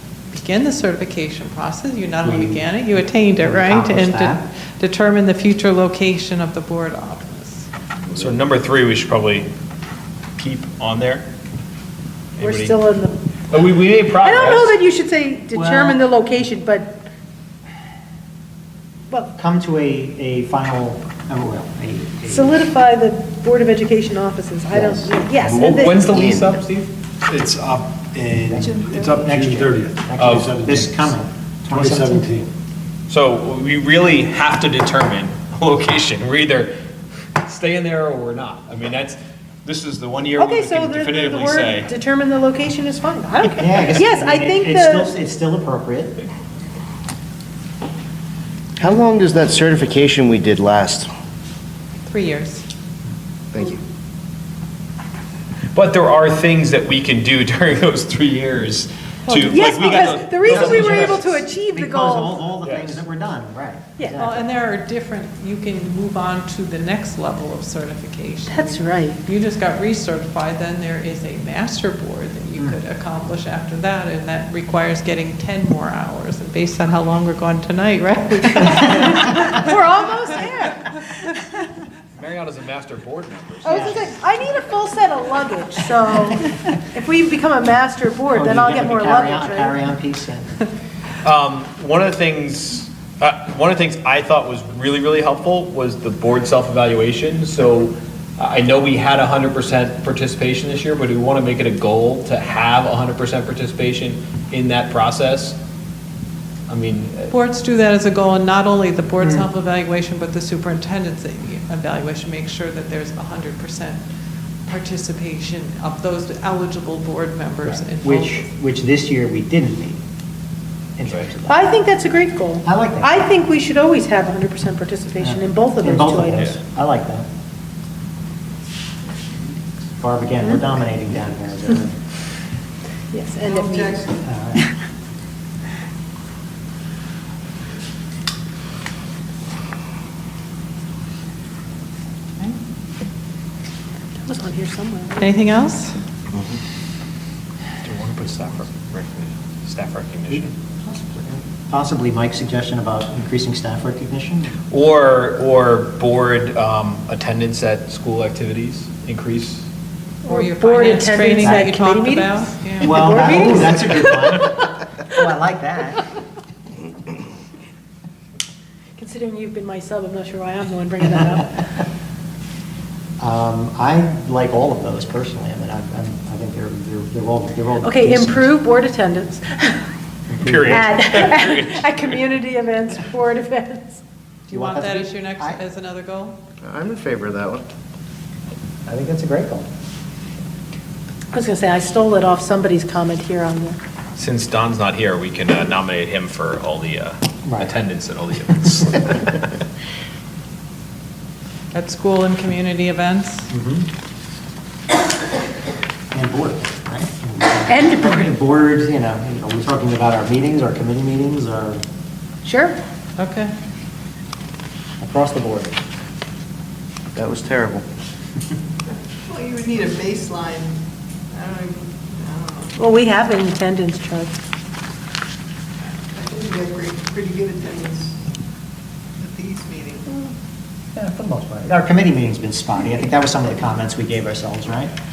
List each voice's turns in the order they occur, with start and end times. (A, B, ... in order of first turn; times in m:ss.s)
0:00.3-0:07.7 A
0:02.2-0:02.6 B
0:03.4-0:04.4 B
0:08.1-0:09.5 C
0:10.4-0:11.2 C
0:12.4-0:12.8 C
0:12.4-0:13.2 D
0:13.5-0:14.8 C
0:14.2-0:17.0 D
0:15.5-0:16.0 B
0:19.3-0:22.6 B
0:22.3-0:26.1 D
0:25.5-0:25.8 E
0:25.5-0:26.9 C
0:26.1-0:26.5 F
0:27.2-0:31.1 E
0:28.5-0:32.3 B
0:30.2-0:30.5 C
0:31.7-0:32.5 E
0:33.1-0:36.7 C
0:37.4-0:41.9 C
0:40.4-0:45.1 D
0:43.4-0:46.2 B
0:48.8-0:51.1 F
0:52.0-0:52.6 A
0:53.5-0:53.8 F
0:55.7-1:01.2 C
0:59.3-1:02.4 D
1:00.1-1:04.4 B
1:02.6-1:03.0 C
1:04.2-1:19.7 A
1:08.5-1:09.2 D
1:18.9-1:21.1 D
1:22.1-1:24.2 C
1:23.6-1:29.8 D
1:23.7-1:24.0 B
1:28.3-1:30.6 B
1:31.2-1:45.6 C
1:46.7-1:47.3 C
1:47.3-1:54.0 A
1:49.2-1:49.5 B
1:54.6-1:58.5 A
1:57.6-2:00.0 B
2:01.0-2:01.8 B
2:01.1-2:01.3 C
2:01.5-2:06.6 D
2:02.6-2:03.3 B
2:05.2-2:07.2 B
2:09.1-2:09.3 G
2:10.0-2:11.9 B
2:13.1-2:14.7 D
2:13.4-2:14.2 G
2:14.2-2:14.6 B
2:24.3-2:25.3 D
2:25.2-2:26.0 A
2:27.8-2:30.5 C
2:30.3-2:34.6 B
2:34.7-2:39.6 C
2:40.2-2:44.5 D
2:40.3-2:43.6 A
2:41.4-2:41.7 B
2:42.8-2:44.5 B
2:45.1-2:46.0 B
2:49.0-2:51.7 D
2:53.2-2:58.5 B
2:57.8-2:59.9 D
3:00.3-3:00.8 B
3:00.4-3:02.2 C
3:00.5-3:04.0 D
3:04.5-3:06.4 A
3:04.5-3:05.6 B
3:06.6-3:07.6 F
3:08.9-3:09.7 B
3:11.3-3:13.8 D
3:14.2-3:19.4 C
3:17.4-3:17.7 B
3:21.7-3:23.5 A
3:23.5-3:23.9 B
3:26.1-3:31.8 B
3:27.7-3:28.3 D
3:32.4-3:32.8 D
3:33.2-3:33.5 A
3:35.0-3:35.8 B
3:37.1-3:37.8 F
3:39.2-3:42.7 G
3:42.8-3:44.3 D
3:46.1-3:48.2 G
3:49.2-3:50.1 G
3:50.9-3:54.9 B